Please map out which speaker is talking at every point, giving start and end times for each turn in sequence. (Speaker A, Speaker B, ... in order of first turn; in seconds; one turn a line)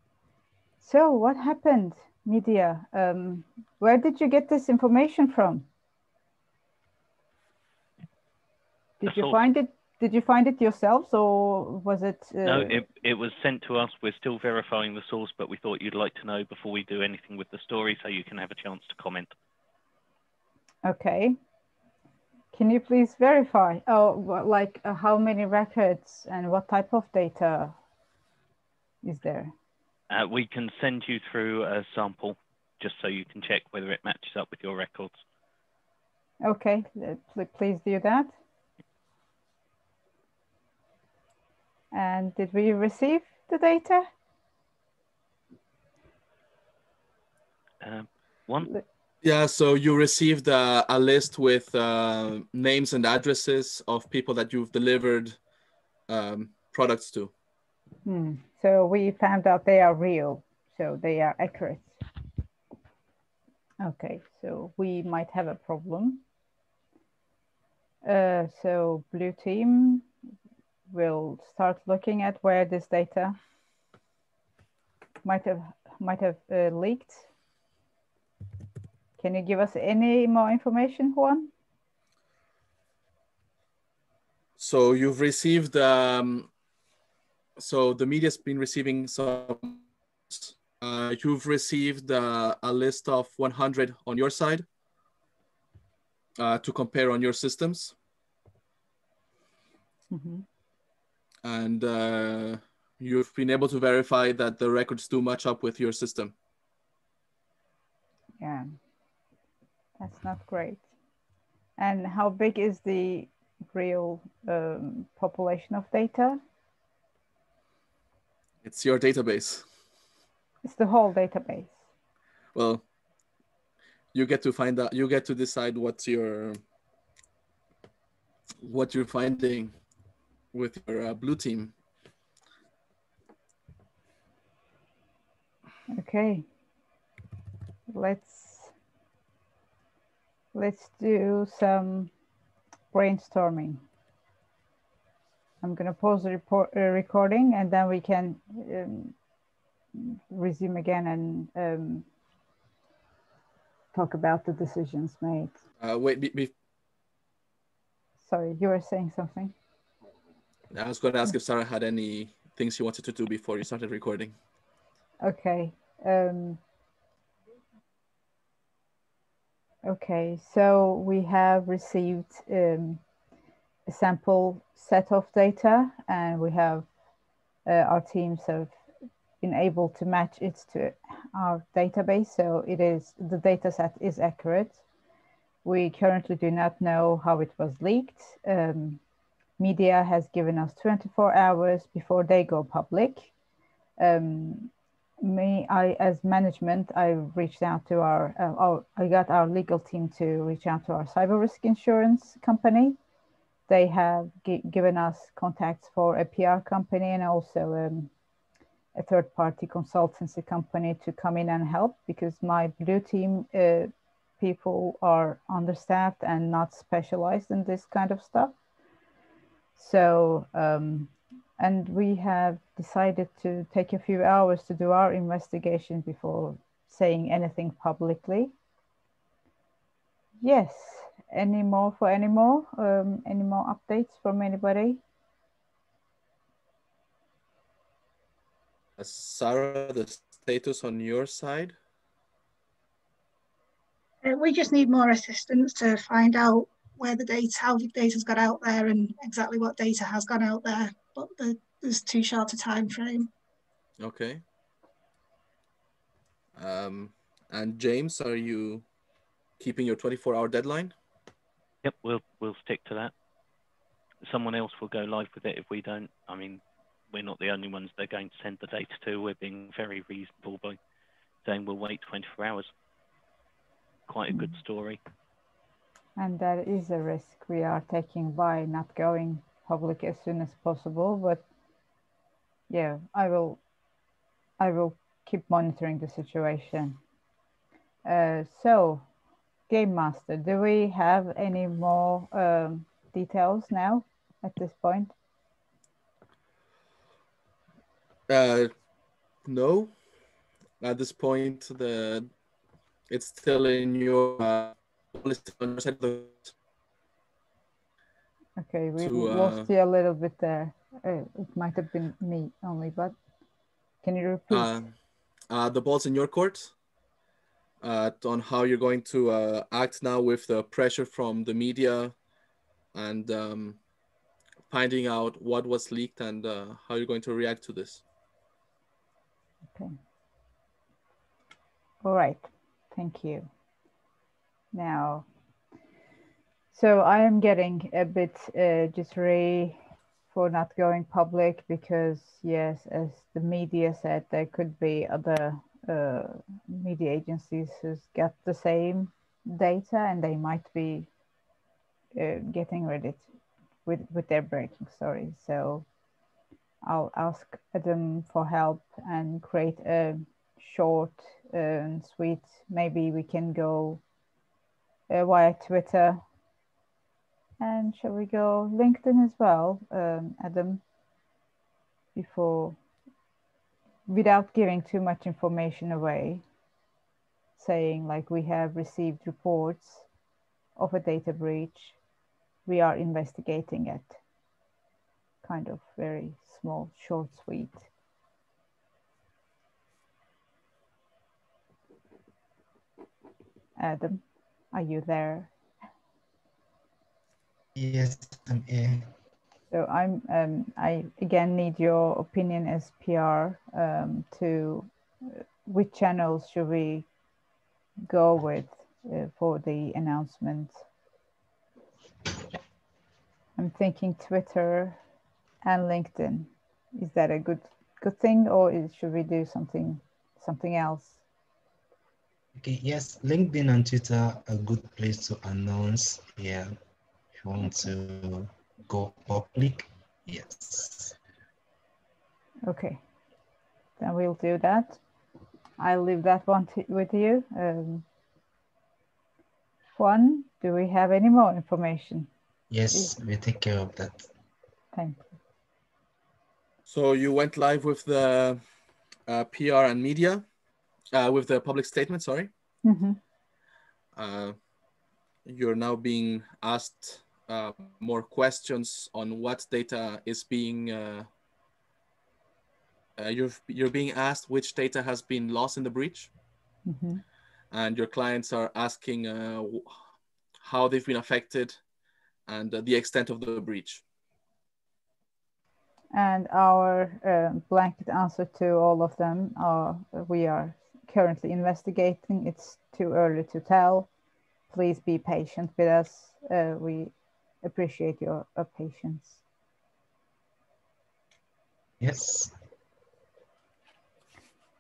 Speaker A: 0.8-5.7
Speaker A: 9.0-12.8
Speaker B: 9.1-9.4
Speaker B: 12.4-19.3
Speaker A: 20.9-21.4
Speaker A: 22.5-27.8
Speaker A: 29.0-29.5
Speaker B: 30.1-35.2
Speaker A: 36.4-38.3
Speaker A: 41.9-44.1
Speaker B: 47.8-48.7
Speaker C: 49.2-55.4
Speaker C: 56.1-57.3
Speaker A: 58.0-62.0
Speaker A: 63.8-66.2
Speaker A: 68.0-70.1
Speaker A: 70.9-73.4
Speaker A: 75.2-77.3
Speaker A: 79.2-81.5
Speaker C: 84.6-86.5
Speaker C: 87.6-94.7
Speaker C: 96.4-97.9
Speaker A: 100.1-100.5
Speaker C: 101.4-106.3
Speaker A: 108.4-108.7
Speaker A: 110.0-110.9
Speaker A: 111.8-116.4
Speaker C: 118.6-119.7
Speaker A: 120.6-121.8
Speaker C: 122.5-122.8
Speaker C: 124.1-126.6
Speaker C: 128.6-129.7
Speaker C: 130.5-131.7
Speaker A: 135.9-136.5
Speaker A: 137.9-138.7
Speaker A: 140.5-142.1
Speaker A: 142.9-143.8
Speaker A: 145.6-149.2
Speaker A: 149.9-152.1
Speaker A: 153.9-155.6
Speaker C: 155.8-156.5
Speaker A: 158.2-159.5
Speaker C: 160.7-164.3
Speaker A: 165.2-166.6
Speaker A: 169.8-173.0
Speaker A: 173.9-176.9
Speaker A: 177.7-178.8
Speaker A: 179.4-184.8
Speaker A: 185.6-189.0
Speaker A: 189.6-193.3
Speaker A: 194.0-203.0
Speaker A: 203.7-208.1
Speaker A: 208.9-218.6
Speaker A: 219.8-228.5
Speaker A: 230.4-235.0
Speaker C: 239.0-241.8
Speaker D: 244.2-253.3
Speaker C: 254.0-254.4
Speaker C: 256.6-258.8
Speaker C: 259.6-260.9
Speaker B: 261.8-263.1
Speaker B: 264.2-270.8
Speaker B: 271.4-272.7
Speaker B: 274.1-275.0
Speaker A: 276.2-281.4
Speaker A: 282.7-283.6
Speaker A: 284.6-287.0
Speaker A: 288.1-289.1
Speaker A: 289.7-295.1
Speaker C: 298.3-298.7
Speaker C: 299.4-299.9
Speaker C: 300.8-302.3
Speaker C: 303.1-306.5
Speaker A: 308.6-313.1
Speaker C: 309.0-309.7
Speaker A: 314.0-314.8
Speaker C: 314.5-314.9
Speaker C: 315.5-316.7
Speaker C: 317.8-322.1
Speaker C: 322.9-323.8
Speaker C: 324.7-328.0
Speaker A: 332.0-333.5
Speaker A: 334.7-335.3
Speaker A: 336.7-339.8
Speaker A: 340.3-351.1
Speaker A: 352.1-353.2
Speaker A: 353.9-355.9
Speaker A: 356.8-364.0
Speaker A: 365.1-366.2
Speaker A: 367.6-370.8
Speaker A: 372.1-372.8
Speaker A: 374.1-376.4
Speaker A: 377.6-380.1
Speaker A: 380.8-382.0
Speaker A: 382.7-384.2
Speaker A: 385.4-387.9
Speaker A: 393.8-395.5
Speaker E: 397.8-399.1
Speaker A: 399.7-407.1
Speaker A: 408.1-410.8
Speaker A: 413.6-415.0
Speaker A: 415.6-421.2
Speaker E: 422.6-426.7
Speaker E: 427.4-431.2
Speaker A: 432.7-433.0
Speaker A: 434.0-435.0
Speaker A: 435.8-438.0
Speaker A: 440.0-442.3
Speaker E: 442.7-444.3
Speaker A: 444.9-445.3
Speaker C: 446.9-448.6
Speaker C: 449.3-450.4
Speaker C: 451.1-452.5
Speaker A: 452.8-453.2
Speaker C: 454.2-454.6
Speaker C: 455.5-461.3
Speaker C: 463.2-466.3
Speaker A: 466.9-467.2
Speaker C: 467.7-470.0
Speaker C: 470.6-471.8
Speaker C: 472.5-474.0
Speaker A: 476.1-484.1
Speaker A: 484.7-489.4
Speaker E: 492.0-492.6